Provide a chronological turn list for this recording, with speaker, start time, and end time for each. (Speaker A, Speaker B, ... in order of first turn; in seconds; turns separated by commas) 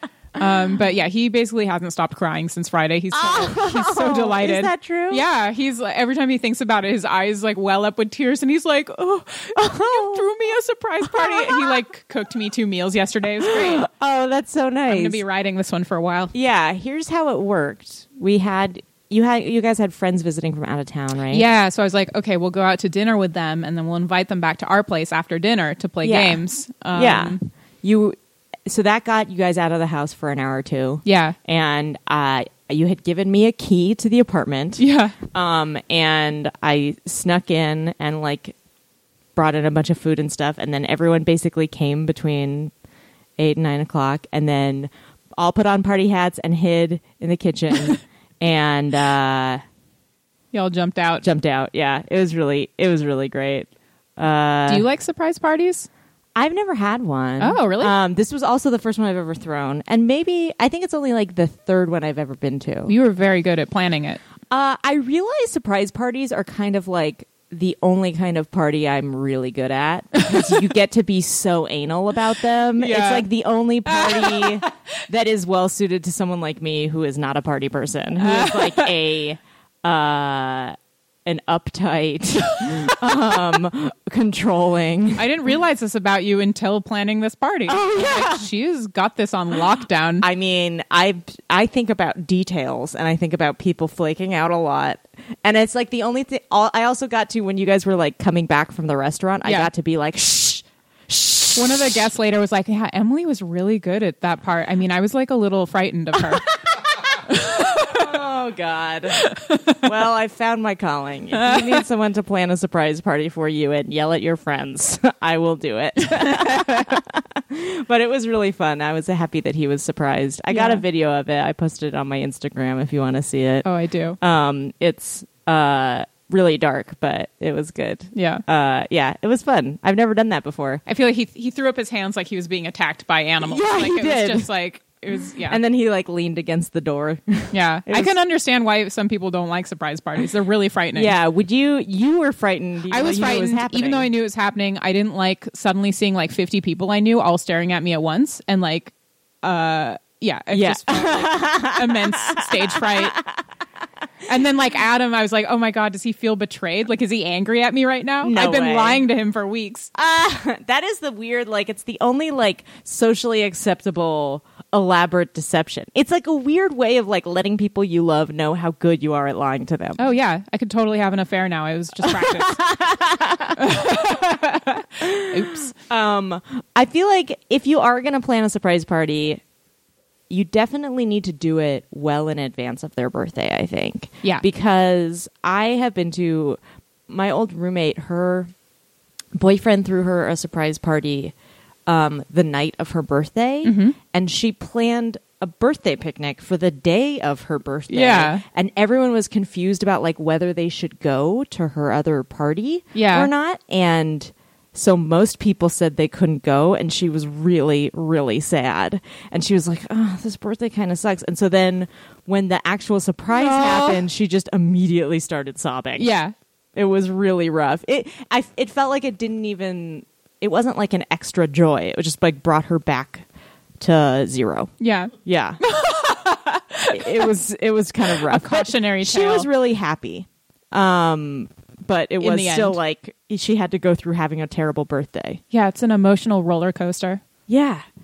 Speaker A: 0.4-13.9, Speaker B: 3.1-5.2, Speaker B: 9.6-10.3, Speaker B: 11.0-11.8, Speaker B: 13.4-15.2, Speaker A: 14.9-16.3, Speaker B: 16.3-21.4, Speaker A: 21.3-27.4, Speaker B: 26.0-38.5, Speaker A: 31.0-31.4, Speaker A: 34.8-35.1, Speaker B: 39.3-42.7, Speaker B: 43.4-49.6, Speaker A: 50.5-51.2, Speaker B: 51.2-54.9, Speaker A: 54.7-55.9, Speaker B: 56.3-62.9, Speaker A: 57.4-57.9, Speaker A: 62.9-64.2, Speaker B: 64.5-85.3, Speaker A: 72.8-73.3, Speaker A: 73.8-74.7, Speaker A: 78.2-78.9, Speaker A: 85.2-90.2, Speaker B: 87.7-88.5, Speaker B: 90.2-101.9, Speaker A: 99.4-99.7, Speaker A: 101.5-106.5, Speaker B: 106.6-123.7, Speaker A: 107.3-108.0, Speaker A: 109.3-109.5, Speaker A: 120.5-120.8, Speaker A: 123.6-124.2, Speaker B: 124.2-130.8, Speaker A: 128.1-128.4, Speaker A: 130.9-135.6, Speaker B: 133.4-134.5, Speaker B: 135.4-138.2, Speaker A: 137.5-141.1, Speaker B: 140.9-144.1, Speaker A: 142.9-153.2, Speaker B: 150.5-153.3, Speaker A: 154.3-159.9, Speaker B: 158.2-159.0, Speaker B: 159.9-170.1, Speaker A: 170.0-172.6, Speaker B: 172.0-173.8, Speaker A: 173.6-175.7, Speaker B: 175.0-179.4, Speaker B: 180.3-188.5, Speaker B: 189.3-191.3, Speaker B: 191.9-216.1, Speaker A: 193.6-194.0, Speaker A: 197.9-198.4, Speaker A: 202.9-203.3, Speaker A: 213.3-214.0, Speaker A: 216.0-216.3, Speaker B: 216.7-223.2, Speaker B: 223.8-224.7, Speaker A: 224.8-227.3, Speaker B: 225.2-225.6, Speaker B: 226.9-235.4, Speaker A: 228.1-229.5, Speaker A: 232.2-232.8, Speaker A: 235.5-237.2, Speaker B: 237.5-237.8